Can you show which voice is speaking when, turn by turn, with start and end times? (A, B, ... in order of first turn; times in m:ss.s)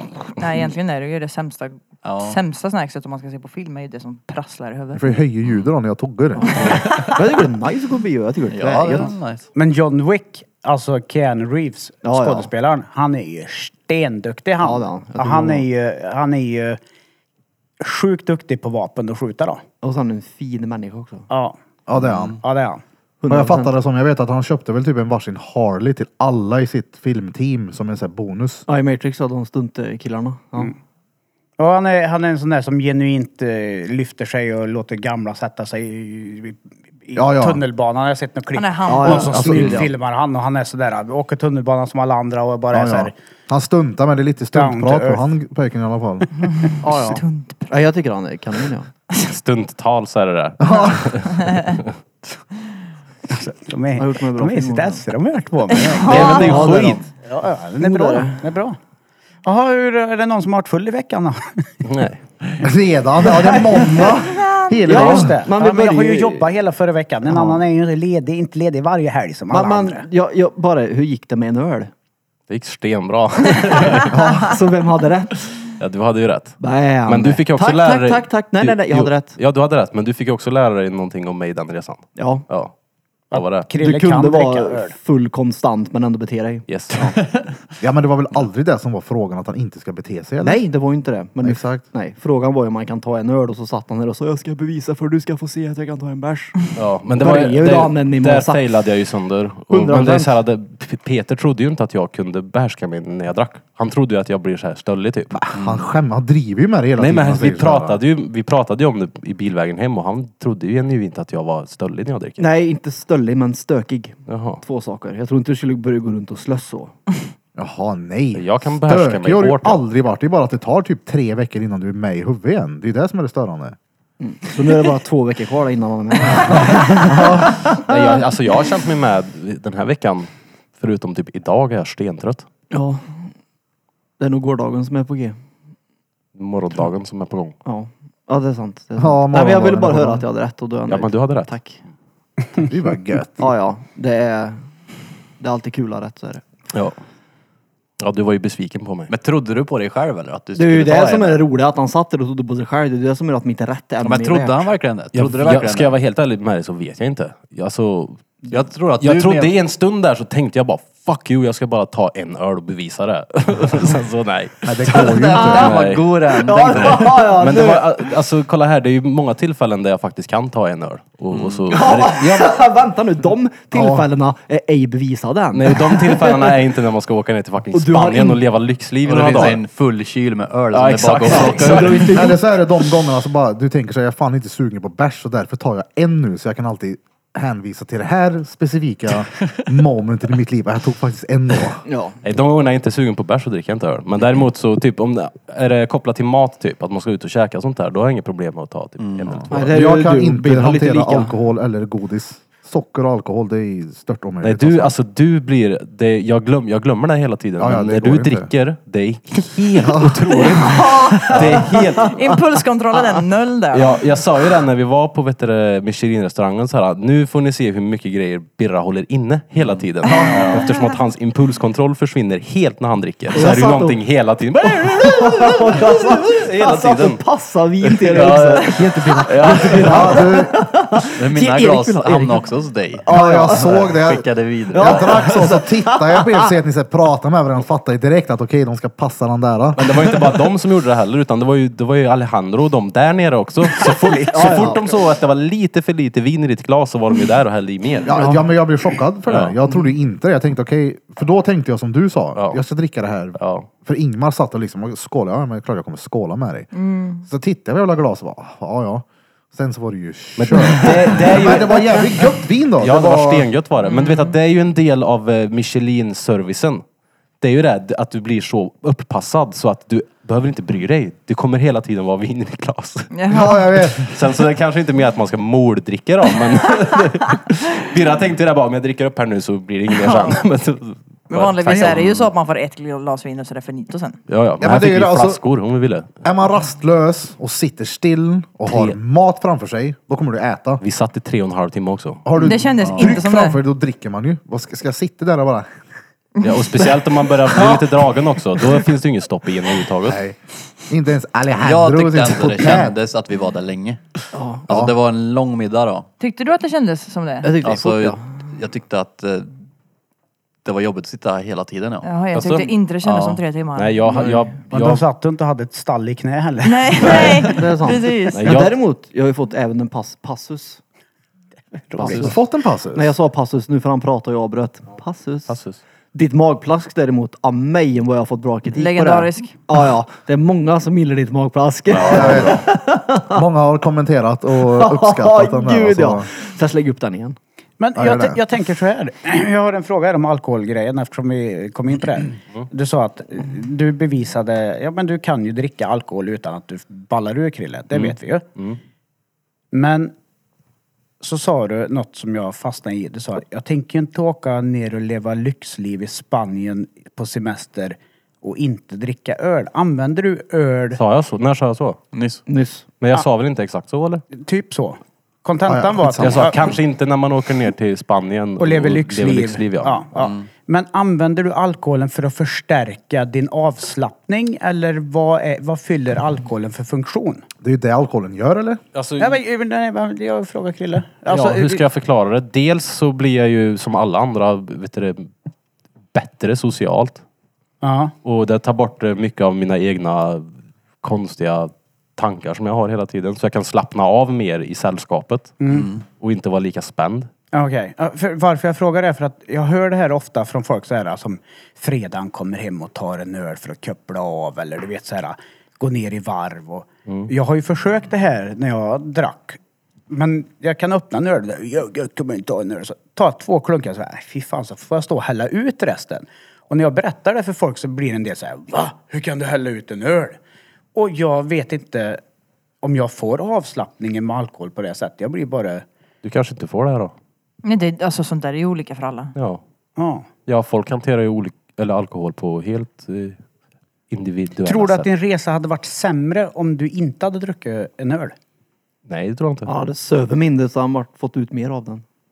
0:00.4-0:05.1 A
0:02.0-0:02.4 B
0:04.9-0:06.7 C
0:06.5-0:09.1 D
0:06.8-0:07.1 B
0:08.5-0:09.5 B
0:09.6-0:16.8 E
0:12.0-0:12.5 D
0:14.6-0:15.7 D
0:17.8-0:19.6 E
0:19.8-0:21.3 D
0:21.3-0:21.6 E
0:21.9-0:22.4 C
0:22.4-0:22.8 E
0:23.2-0:23.8 D
0:23.3-0:28.7 C
0:28.7-0:30.7 D
0:31.6-0:43.1 E
0:37.2-0:37.6 C
0:38.6-0:39.5 A
0:38.9-0:39.8 D
0:39.3-0:39.9 C
0:42.7-0:46.3 C
0:44.5-0:45.3 E
0:46.6-0:47.7 A
0:46.8-0:48.9 D
0:49.2-0:51.9 F
0:50.6-0:51.1 C
0:53.3-0:56.7 E
0:54.0-0:55.0 D
0:55.7-0:56.8 A
0:56.0-0:57.0 F
0:56.1-0:57.1 D
0:57.2-0:58.8 E
0:57.8-0:58.4 D
0:59.4-1:01.7 E
1:01.8-1:02.2 F
1:02.6-1:05.5 C
1:03.3-1:04.1 D
1:04.8-1:10.0 E
1:04.9-1:06.5 D
1:07.3-1:07.6 D
1:09.5-1:11.9 D
1:12.5-1:14.1 F
1:14.1-1:14.5 C
1:14.4-1:15.4 D
1:15.8-1:22.7 F
1:16.6-1:19.4 D
1:22.2-1:22.4 D
1:23.3-1:23.7 F
1:23.3-1:25.0 E
1:23.8-1:27.1 D
1:26.7-1:27.0 F
1:27.2-1:27.5 B
1:27.8-1:30.6 C
1:30.4-1:36.6 D
1:31.4-1:31.8 C
1:36.8-1:45.4 F
1:37.1-1:38.7 D
1:39.7-1:40.4 D
1:45.3-1:48.0 C
1:45.6-1:45.9 B
1:47.0-1:52.4 F
1:52.4-1:57.0 D
1:54.3-1:54.6 F
1:57.6-2:03.8 C
1:58.3-1:59.8 F
2:04.2-2:07.9 D
2:06.9-2:07.6 C
2:07.6-2:12.5 F
2:12.7-2:13.3 D
2:14.2-2:15.4 D
2:16.4-2:17.6 F
2:17.6-2:21.8 D
2:19.0-2:20.2 C
2:20.9-2:21.5 F
2:22.7-2:23.5 C
2:23.4-2:24.7 D
2:25.4-2:26.4 D
2:28.0-2:29.1 F
2:29.1-2:31.4 B
2:30.6-2:34.7 D
2:34.0-2:36.0 B
2:35.1-2:38.4 F
2:38.5-2:39.6 B
2:39.0-2:46.1 F
2:44.7-2:45.8 C
2:44.9-2:47.4 B
2:46.4-2:47.9 D
2:46.7-2:52.5 F
2:51.3-2:51.7 B
2:51.7-2:56.5 D
2:53.7-2:54.0 C
2:55.5-2:59.6 F
2:57.7-2:58.4 D
2:59.0-3:02.2 B
3:00.7-3:02.2 F
3:01.3-3:02.4 D
3:02.1-3:11.8 C
3:11.9-3:12.2 D
3:12.2-3:19.7 F
3:19.0-3:19.5 B
3:19.5-3:21.4 D
3:19.5-3:25.0 C
3:24.4-3:32.4 F
3:27.6-3:28.5 C
3:29.8-3:30.5 C
3:30.6-3:31.4 A
3:31.9-3:34.0 A
3:33.7-3:47.2 F
3:43.3-3:44.0 D
3:44.8-3:52.5 D
3:47.9-3:50.2 F
3:49.8-3:50.6 C
3:51.2-3:55.5 B
3:53.0-3:54.2 D
3:53.1-4:00.1 C
3:54.7-3:56.5 D
3:59.8-4:08.1 F
4:03.8-4:04.8 E
4:04.3-4:04.8 D
4:08.0-4:16.7 C
4:08.1-4:08.5 D
4:09.3-4:09.6 F
4:13.4-4:13.7 F
4:16.7-4:17.2 A
4:17.2-4:23.5 C
4:20.4-4:22.3 F
4:22.8-4:26.8 F
4:23.9-4:24.3 A
4:27.4-4:33.1 F
4:33.1-4:33.6 A
4:33.3-4:34.2 C
4:34.0-4:42.3 F
4:39.9-4:40.4 A
4:41.3-4:44.2 A
4:44.3-4:46.1 F
4:44.6-4:45.4 C
4:46.2-4:50.8 C
4:48.7-4:49.0 F
4:50.8-4:52.3 F
4:52.2-4:55.7 C
4:52.4-4:53.6 A
4:52.8-4:53.2 B
4:56.4-5:00.2 F
5:00.0-5:03.0 C
5:01.6-5:04.0 B
5:04.3-5:04.6 D
5:04.7-5:06.1 B
5:06.2-5:07.6 A
5:07.4-5:08.2 D
5:07.6-5:09.5 B
5:10.6-5:12.1 B
5:12.0-5:14.3 A
5:12.3-5:12.7 F
5:13.0-5:13.4 B
5:13.8-5:15.0 F
5:14.2-5:17.5 E
5:16.6-5:18.6 A
5:17.0-5:17.4 F
5:17.4-5:20.8 D
5:18.3-5:18.8 F
5:21.9-5:22.3 E
5:22.0-5:22.3 F
5:22.0-5:23.1 C
5:22.9-5:25.6 D
5:25.5-5:25.8 F
5:26.1-5:33.4 D
5:28.7-5:29.6 A
5:32.0-5:32.5 F
5:32.0-5:32.3 B
5:32.1-5:36.3 C
5:34.6-5:37.4 D
5:37.8-5:48.4 E
5:37.9-5:38.4 C
5:47.9-5:48.8 F
5:49.7-5:50.1 E
5:51.2-6:01.0 E
6:01.0-6:02.0 F
6:02.1-6:02.4 B
6:02.5-6:02.8 D
6:03.0-6:04.2 F
6:04.3-6:06.7 E
6:05.7-6:06.8 C
6:06.2-6:10.1 F
6:08.6-6:17.4 E
6:10.2-6:10.5 B
6:17.6-6:18.8 C
6:18.9-6:19.4 F
6:19.2-6:21.8 E
6:21.3-6:25.3 F
6:26.1-6:27.2 F
6:27.8-6:28.1 E
6:28.2-6:30.5 F
6:31.0-6:35.6 F
6:35.6-6:35.9 E
6:35.7-6:36.0 B
6:36.2-6:37.3 F
6:37.5-6:49.6 E
6:50.1-7:00.4 E
7:01.0-7:02.2 E
7:02.8-7:05.8 E
7:06.2-7:07.1 F
7:07.6-7:09.3 A
7:09.4-7:09.6 F
7:10.0-7:10.3 E
7:10.5-7:13.4 F
7:14.1-7:15.1 F
7:14.6-7:18.4 E
7:19.1-7:19.7 F
7:19.7-7:22.0 D